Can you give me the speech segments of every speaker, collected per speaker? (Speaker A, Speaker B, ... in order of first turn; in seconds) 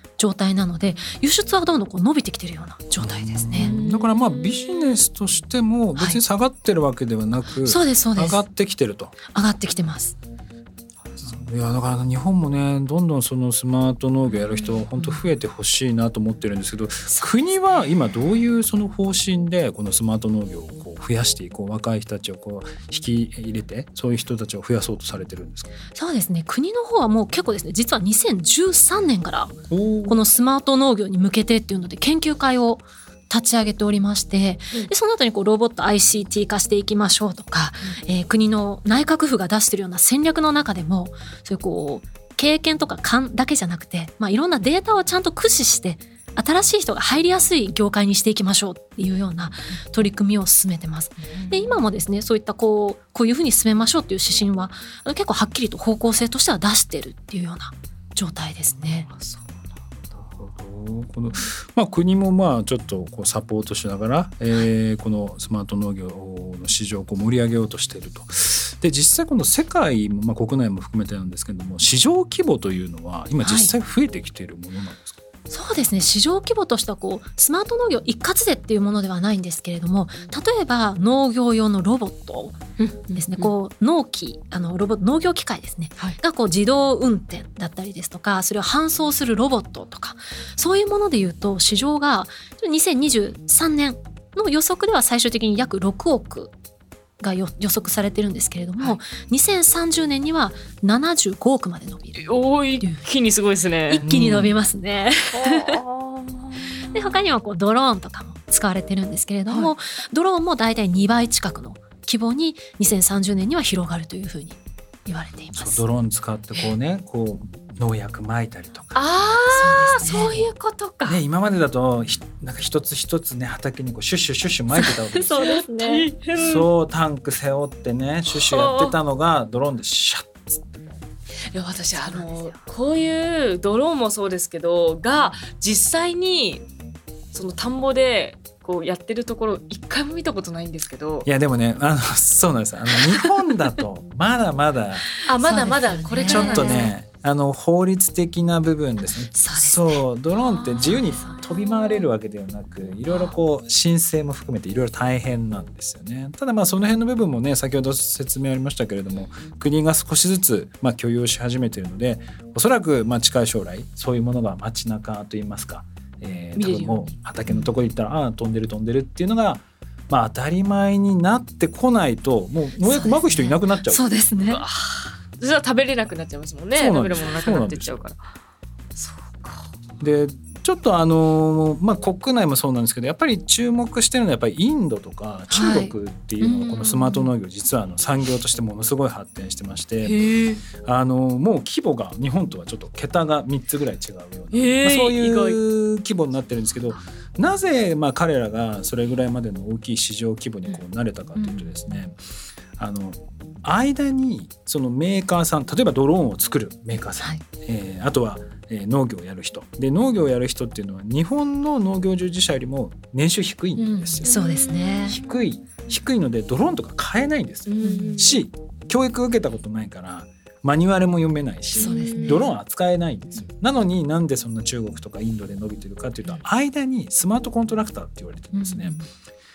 Speaker A: 0.2-3.8, 6.0-6.2, 7.6-8.4, 9.3-10.2, 17.1-17.6, 25.9-29.6, 30.1-59.1, 73.4-73.7, 75.5-82.6, 83.1-96.5, 97.2-103.0, 103.9-105.8, 106.9-115.8, 119.5-120.5, 124.7-126.1, 131.9-132.7, 145.2-146.9, 149.3-151.8, 153.1-153.3, 167.5-167.7, 172.8-174.6, 185.5-187.3, 201.3-202.1, 213.8-215.2, 217.8-218.3, 221.8-222.5, 228.5-229.1
Speaker B: 3.0-9.2, 11.2-25.7, 29.7-30.2, 60.2-75.2, 104.0-104.6, 115.5-119.0, 121.1-125.4, 126.3-130.9, 141.3-145.1, 146.2-174.2, 176.7-177.9, 180.0-190.2, 190.8-202.2, 202.8-214.4, 215.0-229.0
Speaker C: 3.6-5.1, 14.3-14.9, 51.3-51.9, 58.8-59.6, 82.8-83.5, 102.2-104.0, 105.3-107.2, 109.5-109.7, 119.0-121.2, 125.4-126.7, 128.3-129.0, 131.5-136.7, 137.3-141.3, 145.3-146.9, 166.6-167.1, 174.5-178.2, 179.0-179.7, 190.0-190.6, 194.5-195.6, 214.2-215.4, 217.7-218.4, 221.7-222.5